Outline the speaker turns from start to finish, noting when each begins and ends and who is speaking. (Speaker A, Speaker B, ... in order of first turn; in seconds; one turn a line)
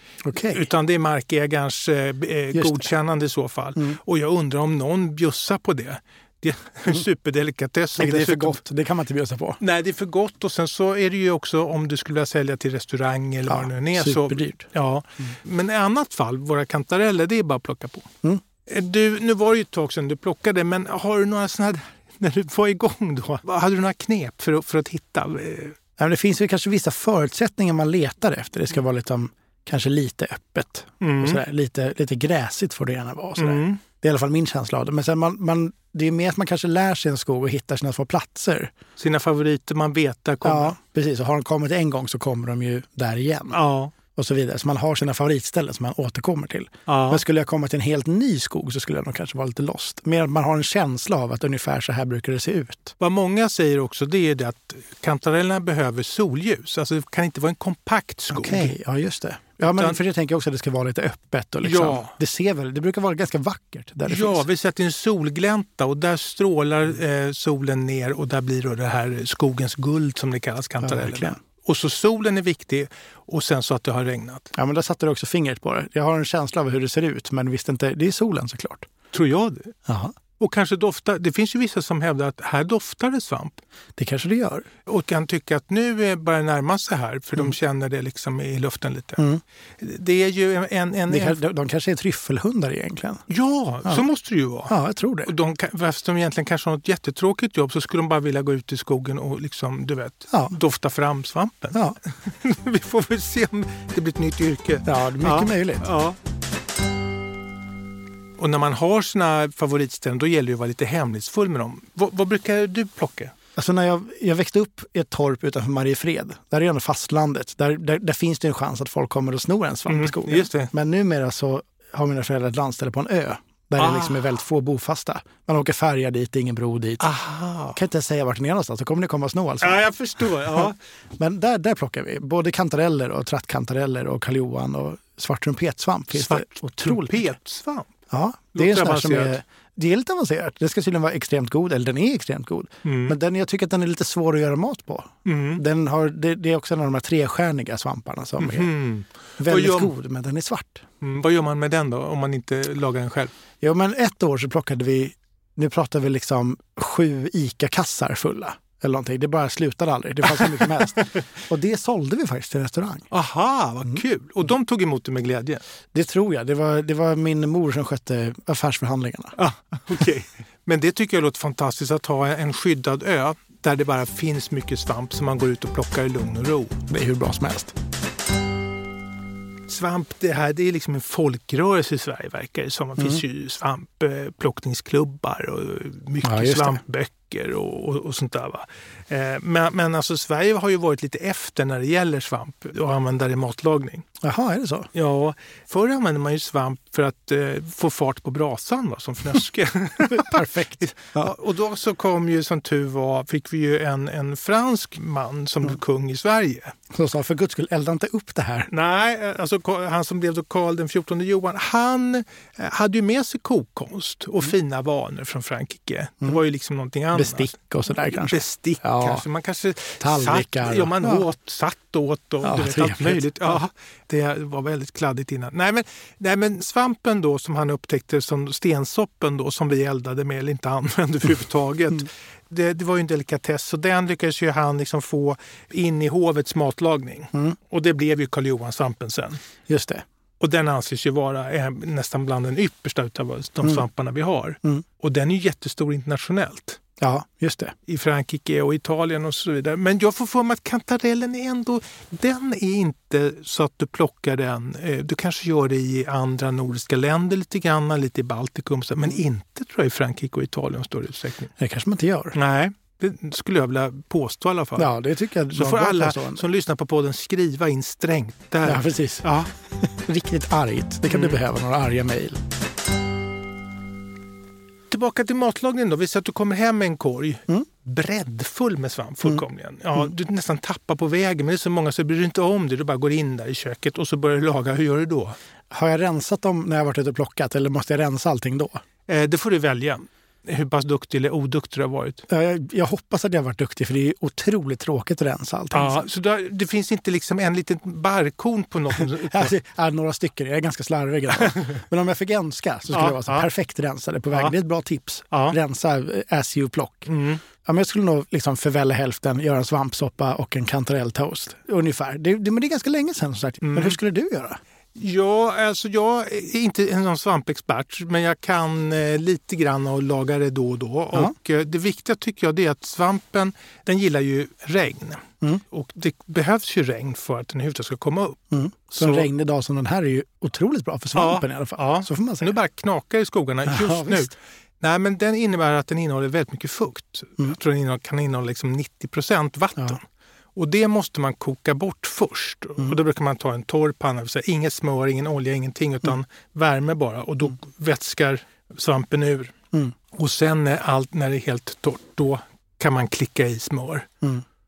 Speaker A: 0.2-0.7
Speaker B: 0.4-8.6
Speaker A: 2.5-2.9
Speaker A: 8.0-9.6
Speaker B: 9.6-18.1
Speaker A: 13.5-14.7
Speaker B: 18.7-25.8
Speaker A: 26.0-38.7
Speaker B: 31.0-31.4
Speaker B: 33.4-33.8
Speaker B: 39.0-40.8
Speaker A: 40.4-43.6
Speaker B: 43.5-43.9
Speaker A: 44.1-53.0
Speaker B: 46.9-47.2
Speaker B: 53.0-58.7
Speaker A: 58.3-64.5
Speaker B: 59.7-60.0
Speaker B: 61.6-62.1
Speaker B: 64.1-74.5
Speaker A: 70.8-71.4
Speaker A: 74.5-78.9
Speaker B: 79.1-79.8
Speaker A: 79.8-80.1
Speaker B: 80.4-83.6
Speaker A: 84.0-84.7
Speaker B: 84.8-89.2
Speaker B: 89.8-91.4
Speaker A: 91.1-93.2
Speaker B: 93.3-94.7
Speaker A: 94.7-95.3
Speaker B: 95.3-106.2
Speaker A: 104.8-105.8
Speaker B: 108.4-113.3
Speaker A: 113.6-127.0
Speaker B: 119.9-120.7
Speaker B: 123.8-124.2
Speaker B: 127.0-127.8
Speaker A: 127.8-129.8
Speaker B: 129.6-130.8
Speaker A: 130.5-137.3
Speaker B: 136.1-137.9
Speaker A: 138.1-148.7
Speaker B: 138.5-139.4
Speaker B: 142.8-143.2
Speaker B: 145.2-145.6
Speaker B: 148.4-149.9
Speaker A: 149.4-150.8
Speaker B: 151.0-153.3
Speaker A: 153.6-163.1
Speaker B: 160.4-161.2
Speaker B: 163.1-165.6
Speaker A: 165.9-169.3
Speaker B: 169.3-176.8
Speaker A: 176.9-177.7
Speaker B: 179.7-194.1
Speaker A: 186.2-186.8
Speaker A: 194.2-194.9
Speaker B: 194.9-206.8
Speaker A: 200.1-201.3
Speaker A: 206.9-208.7
Speaker B: 208.7-217.5
Speaker A: 217.1-219.2
Speaker B: 218.2-239.4
Speaker A: 220.0-221.3
Speaker A: 222.4-223.6
Speaker A: 239.7-240.0
Speaker B: 240.4-246.8
Speaker A: 247.0-247.8
Speaker B: 247.9-261.5
Speaker A: 261.6-262.4
Speaker B: 262.3-264.9
Speaker A: 264.8-266.4
Speaker B: 265.5-269.5
Speaker A: 268.6-272.4
Speaker B: 271.1-271.4
Speaker B: 274.9-285.4
Speaker A: 285.7-288.8
Speaker B: 289.1-292.2
Speaker A: 292.3-296.0
Speaker B: 295.7-299.5
Speaker A: 299.1-307.1
Speaker B: 301.4-301.8
Speaker B: 302.9-303.5
Speaker B: 305.3-305.6
Speaker B: 307.1-307.4
Speaker A: 307.6-314.6
Speaker B: 313.6-314.0
Speaker B: 314.9-328.4
Speaker A: 328.5-332.5
Speaker B: 329.0-329.3
Speaker B: 331.1-340.0
Speaker A: 333.6-334.3
Speaker B: 340.6-349.5
Speaker B: 350.1-354.1